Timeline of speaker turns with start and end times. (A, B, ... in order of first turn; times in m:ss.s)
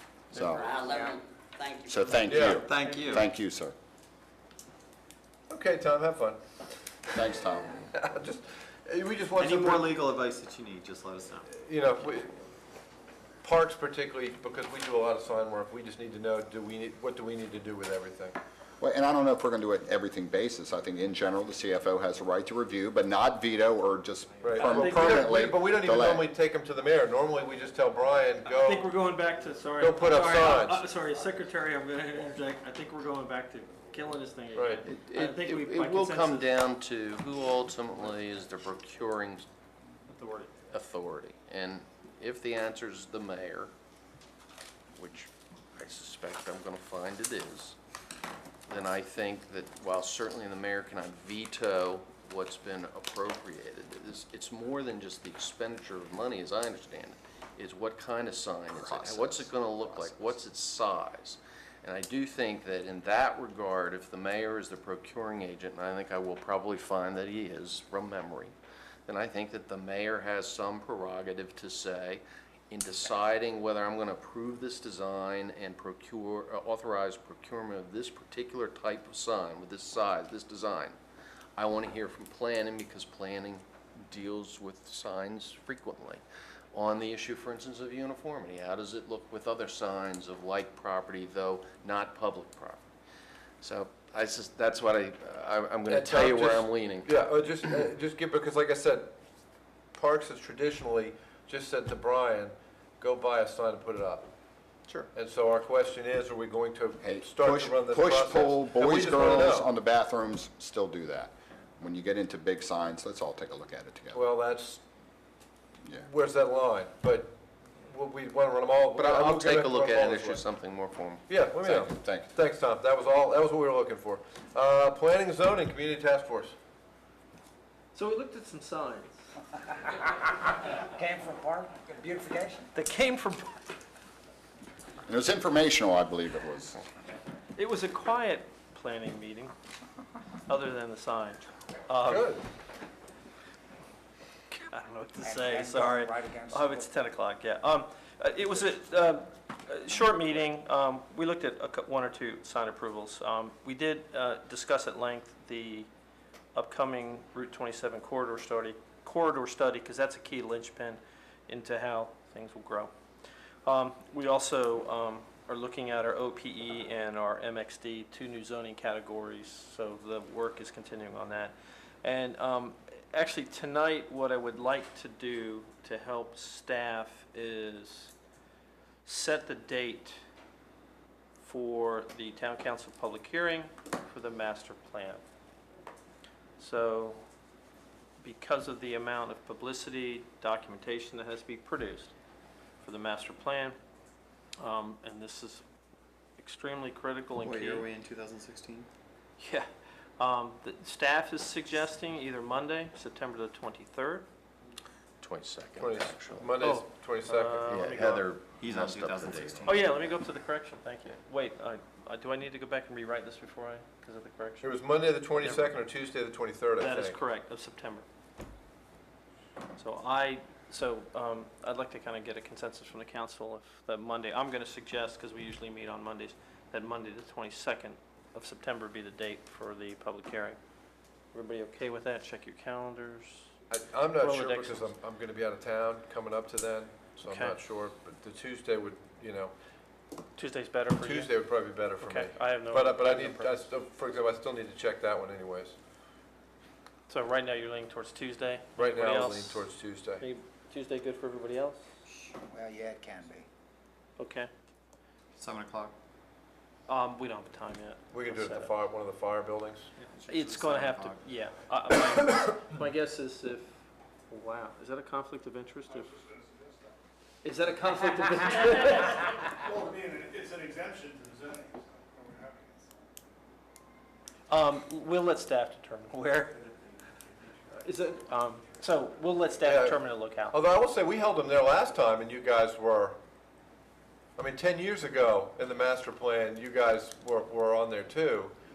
0:00.3-0:00.8 A
0:00.3-0:01.1 B
0:00.6-0:02.5 C
0:01.9-0:03.8 A
0:02.3-0:02.6 D
0:02.6-0:03.3 E
0:02.7-0:03.1 B
0:05.5-0:06.4 D
0:07.1-0:07.9 A
0:07.9-0:10.0 D
0:09.4-0:11.5 E
0:11.5-0:12.4 D
0:13.4-0:18.4 D
0:18.8-0:26.3 A
0:24.4-0:29.0 D
0:24.6-0:25.5 B
0:28.5-0:36.6 B
0:29.8-0:30.8 D
0:34.6-0:34.8 D
0:34.8-0:39.5 F
0:40.1-0:40.5 B
0:40.7-0:43.7 F
0:45.0-0:47.8 F
0:48.7-1:08.6 F
0:58.7-1:00.4 A
1:09.1-1:21.0 F
1:21.6-1:32.8 F
1:33.6-1:37.1 F
1:35.9-1:39.2 D
1:39.9-1:44.3 D
1:45.1-1:49.7 D
1:47.0-1:54.3 A
1:54.1-1:54.8 D
1:56.0-2:00.4 D
1:59.0-2:01.2 F
2:01.3-2:06.6 D
2:01.6-2:02.3 A
2:07.9-2:09.3 B
2:10.9-2:12.7 G
2:12.8-2:13.7 B
2:15.1-2:16.8 A
2:17.6-2:19.5 B
2:20.5-2:22.4 B
2:22.1-2:22.4 D
2:24.5-2:35.9 B
2:25.2-2:26.9 G
2:36.6-2:42.9 B
2:43.6-2:58.1 B
2:59.0-3:00.2 B
3:01.4-3:05.2 B
3:06.6-3:07.2 B
3:08.2-3:12.1 B
3:12.8-3:13.8 B
3:14.6-3:15.6 B
3:16.4-3:17.9 B
3:17.4-3:18.9 E
3:19.4-3:24.3 B
3:25.2-3:26.6 F
3:25.8-3:28.2 D
3:26.6-3:28.3 B
3:27.7-3:29.8 F
3:28.6-3:29.9 E
3:29.6-3:34.7 B
3:34.6-3:37.2 D
3:35.4-3:35.8 B
3:36.8-3:38.1 B
3:39.8-3:50.6 B
3:51.3-3:53.5 B
3:53.7-3:59.5 D
3:54.2-3:54.9 B
3:57.3-3:57.6 B
4:00.4-4:01.3 B
4:01.0-4:05.8 D
4:02.0-4:03.6 B
4:07.1-4:11.8 B
4:08.8-4:10.2 D
4:12.3-4:13.5 G
4:14.2-4:14.5 B
4:15.4-4:16.0 E
4:16.9-4:18.7 B
4:18.1-4:19.9 D
4:20.1-4:21.3 E
4:20.3-4:26.1 B
4:25.9-4:27.0 H
4:27.4-4:29.4 B
4:29.6-4:33.0 H
4:34.5-4:36.6 B
4:36.6-4:37.7 H
4:37.8-4:40.6 B
4:39.6-4:43.2 D
4:44.4-4:48.6 D